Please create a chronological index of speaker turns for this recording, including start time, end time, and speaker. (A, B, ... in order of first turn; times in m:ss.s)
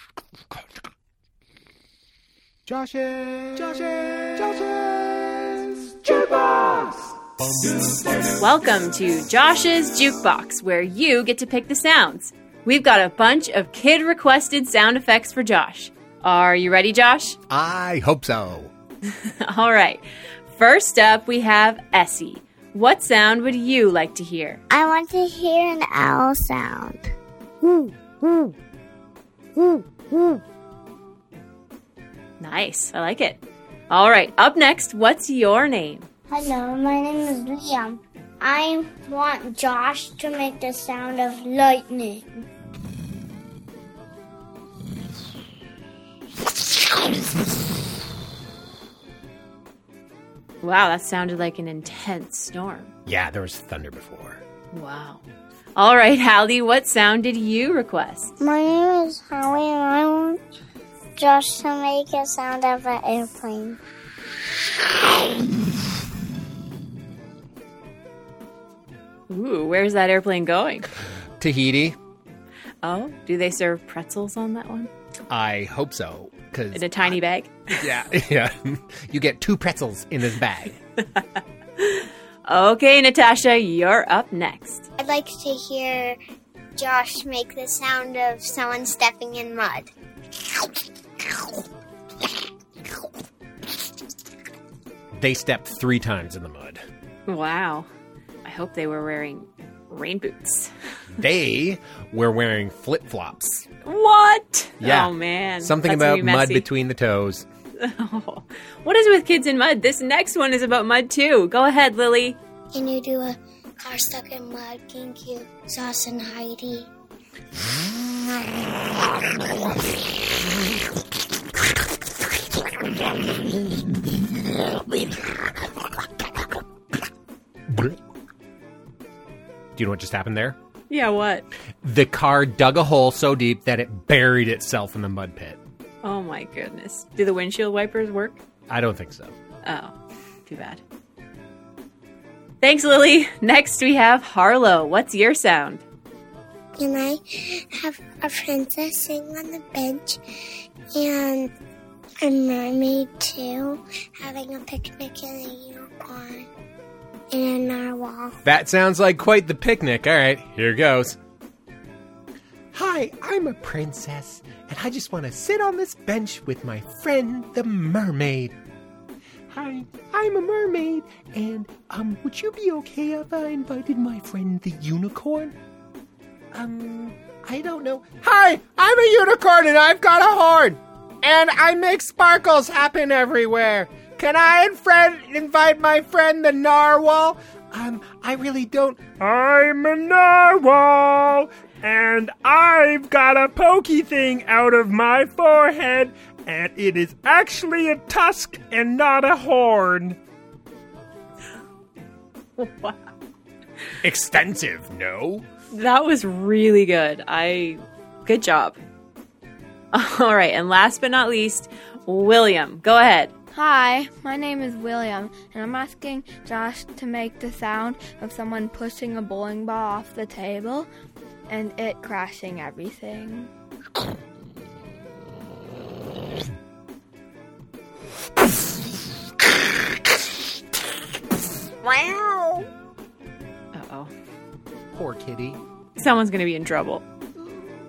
0:02.6-0:07.1 A
0:08.4-0:17.4 B
0:17.5-0:18.7 A
0:19.0-0:24.6 B
0:24.7-0:27.0 C
0:27.7-0:28.5 C
0:29.6-0:30.4 C
0:32.4-0:36.1 B
0:36.3-0:42.2 C
0:50.6-0:52.9 B
0:53.0-0:54.4 A
0:54.7-0:55.2 B
0:55.8-0:58.3 B
0:58.4-1:00.4 C
1:01.2-1:03.8 C
1:09.3-1:10.9 B
1:11.4-1:12.0 A
1:12.8-1:14.9 B
1:15.3-1:17.2 A
1:16.7-1:17.6 B
1:17.8-1:20.8 A
1:21.1-1:24.8 B
1:25.0-1:26.2 C
1:26.8-1:29.9 C
1:35.2-1:36.8 A
1:37.3-1:37.9 B
1:38.4-1:40.7 B
1:41.2-1:43.6 A
1:43.8-1:46.7 B
1:44.8-1:47.4 A
1:47.8-1:52.4 B
1:52.7-1:56.9 C
2:07.7-2:08.0 A
2:09.8-2:10.6 A
2:10.9-2:11.5 B
2:11.8-2:15.6 A
2:16.0-2:18.4 B
2:18.7-2:19.3 A
2:19.6-2:19.9 B
2:20.5-2:20.8 B
2:22.6-2:25.8 B
2:26.8-2:30.2 C
2:30.9-2:31.5 C
2:32.2-2:36.5 C
2:37.3-2:38.4 C
2:38.4-2:41.2 A
2:42.7-2:48.5 A
2:49.5-2:55.5 A
2:56.5-3:20.2 A
3:22.6-3:23.0 B
3:24.0-3:25.4 A
3:25.7-3:28.8 B
3:29.9-3:33.3 B
3:33.5-3:40.9 D
3:41.5-3:43.5 D
3:51.8-3:52.6 A
3:53.7-3:54.1 B
3:54.9-3:55.6 A
3:56.0-3:57.0 B